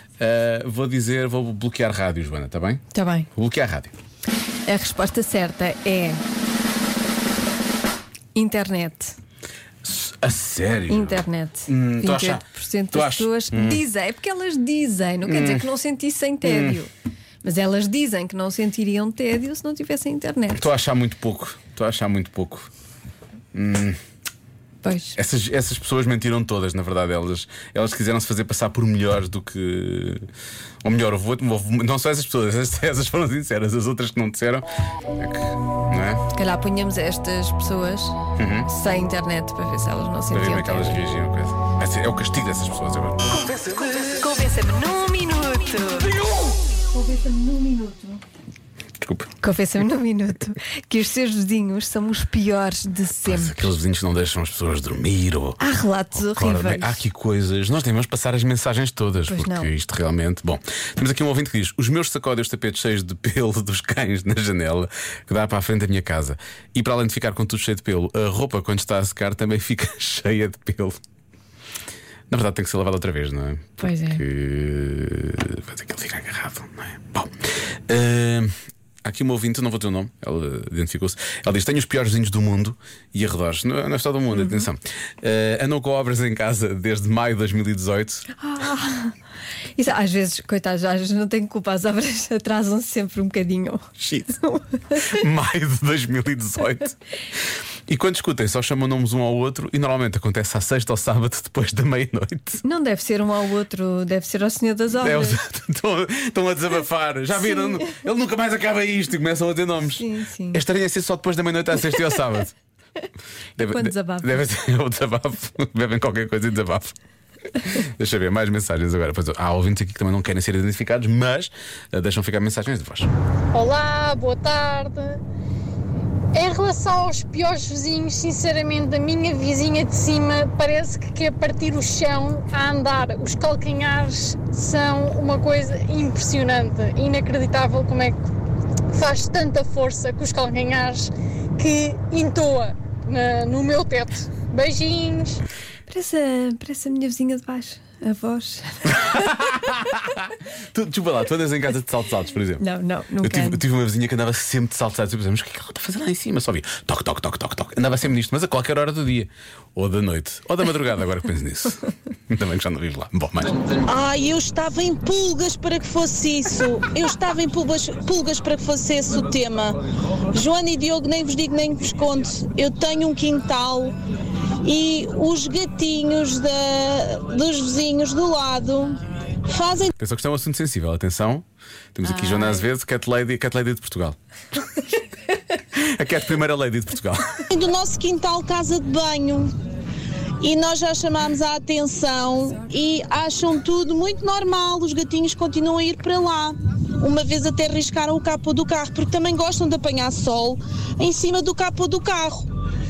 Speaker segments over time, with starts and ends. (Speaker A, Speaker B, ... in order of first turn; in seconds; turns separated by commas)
Speaker A: 0.2-2.8, Speaker B: 2.9-3.3, Speaker A: 3.3-3.9, Speaker B: 4.7-6.2, Speaker B: 8.3-9.2, Speaker A: 9.8-13.8, Speaker B: 10.9-16.9, Speaker A: 15.2-15.7, Speaker A: 16.4-16.8, Speaker B: 17.4-20.7, Speaker A: 20.6-22.7, Speaker A: 23.5-24.0, Speaker B: 24.8-25.2, Speaker A: 25.2-30.2, Speaker A: 30.8-36.2, Speaker B: 36.3-41.0, Speaker A: 38.4-38.7, Speaker A: 40.3-43.4, Speaker B: 44.1-46.1, Speaker B: 46.9-48.2, Speaker A: 49.0-49.3, Speaker B: 49.4-53.8, Speaker A: 53.2-55.6, Speaker B: 55.6-57.0, Speaker A: 56.1-71.0, Speaker B: 59.3-59.7, Speaker A: 72.3-77.3, Speaker B: 73.8-74.2, Speaker A: 77.9-78.5, Speaker A: 79.0-88.3, Speaker B: 84.3-84.7, Speaker B: 88.4-89.2, Speaker B: 89.8-93.8, Speaker A: 94.0-94.4, Speaker B: 94.4-95.0, Speaker A: 95.0-97.0, Speaker A: 97.9-102.6, Speaker B: 102.6-105.4, Speaker A: 105.0-112.6, Speaker B: 110.0-110.6, Speaker A: 113.6-116.9, Speaker B: 113.7-114.4, Speaker A: 117.6-123.1, Speaker C: 123.5-125.2, Speaker C: 126.3-138.2, Speaker C: 138.9-145.4, Speaker B: 145.9-150.0, Speaker A: 149.7-150.0, Speaker A: 150.7-152.6, Speaker B: 152.6-153.6, Speaker A: 153.2-163.6, Speaker D: 163.8-169.8, Speaker D: 170.3-173.9, Speaker D: 174.6-179.9, Speaker A: 180.0-184.2, Speaker A: 185.7-187.4, Speaker D: 187.5-189.5, Speaker D: 190.4-202.4